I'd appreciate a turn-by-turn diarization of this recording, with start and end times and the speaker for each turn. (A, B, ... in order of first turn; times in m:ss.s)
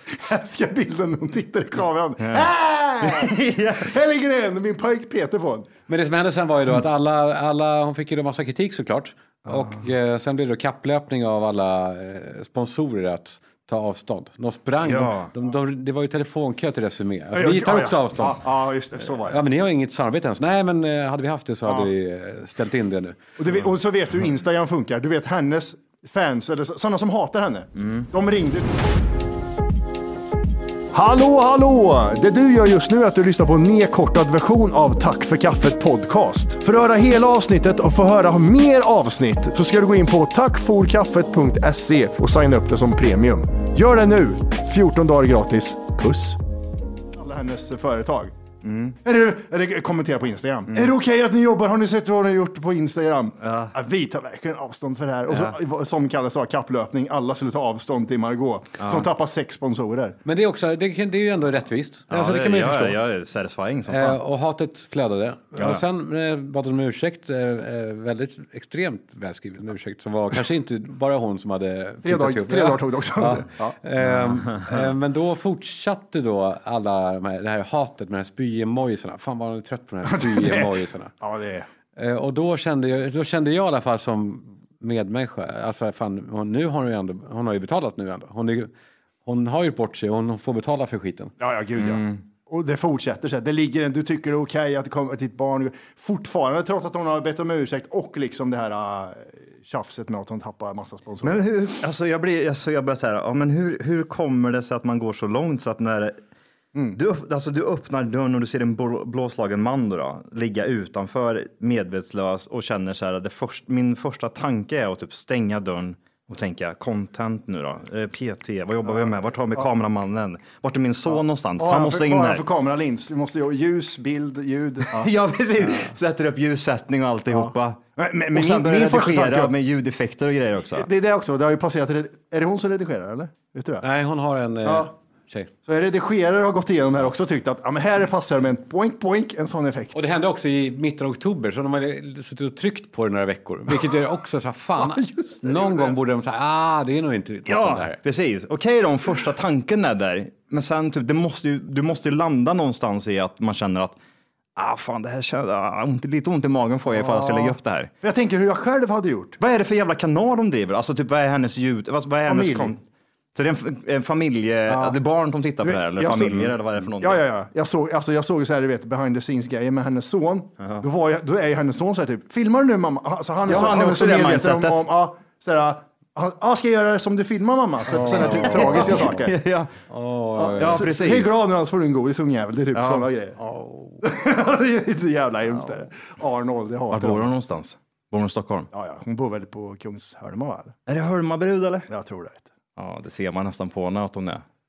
0:00.2-0:05.7 A
0:02.2-0:02.5 B
0:03.0-0:03.9 B
0:05.9-0:18.4 C
0:14.8-0:15.3 B
0:17.3-0:19.4 A
0:19.0-0:23.2 C
0:23.4-0:28.7 A
0:27.8-0:28.0 B
0:30.9-0:46.4 A
0:47.2-0:48.3 A
0:48.6-0:49.0 B
0:49.0-1:00.2 A
0:53.4-0:53.7 B
0:55.3-0:55.6 B
0:58.8-0:59.1 B
1:00.2-1:03.0 C
1:02.1-1:04.2 B
1:03.9-1:21.1 C
1:05.6-1:05.8 B
1:12.0-1:13.8 A
1:14.0-1:14.8 B
1:20.1-1:21.7 A
1:22.0-1:28.7 C
1:29.2-1:31.3 C
1:31.4-1:41.4 A
1:31.8-1:32.2 B
1:41.2-1:46.2 B
1:46.9-2:02.4 B
2:01.1-2:05.1 A
2:04.9-2:07.8 B
2:07.3-2:09.5 A
2:08.3-2:10.9 B
2:10.7-2:13.8 A
2:13.8-2:15.5 C
2:14.6-2:14.9 A
2:15.7-2:20.0 A
2:19.9-2:28.0 C
2:25.2-2:25.9 A
2:27.5-2:34.0 B
2:34.6-2:37.9 B
2:37.0-2:39.4 A
2:39.4-2:42.8 B
2:42.3-2:42.7 A
2:43.4-2:47.2 B
2:44.7-2:45.0 A
2:45.6-2:59.4 A
2:50.6-2:50.8 B
2:53.5-2:54.8 B
2:57.9-2:59.2 C
2:58.0-2:59.7 B
2:59.9-3:00.8 C
3:00.4-3:03.4 A
3:00.6-3:01.3 B
3:02.7-3:03.1 B
3:03.4-3:04.0 C
3:04.0-3:07.3 A
3:06.9-3:08.7 B
3:08.7-3:10.8 A
3:10.9-3:11.9 B
3:11.9-3:12.5 A
3:12.8-3:14.4 B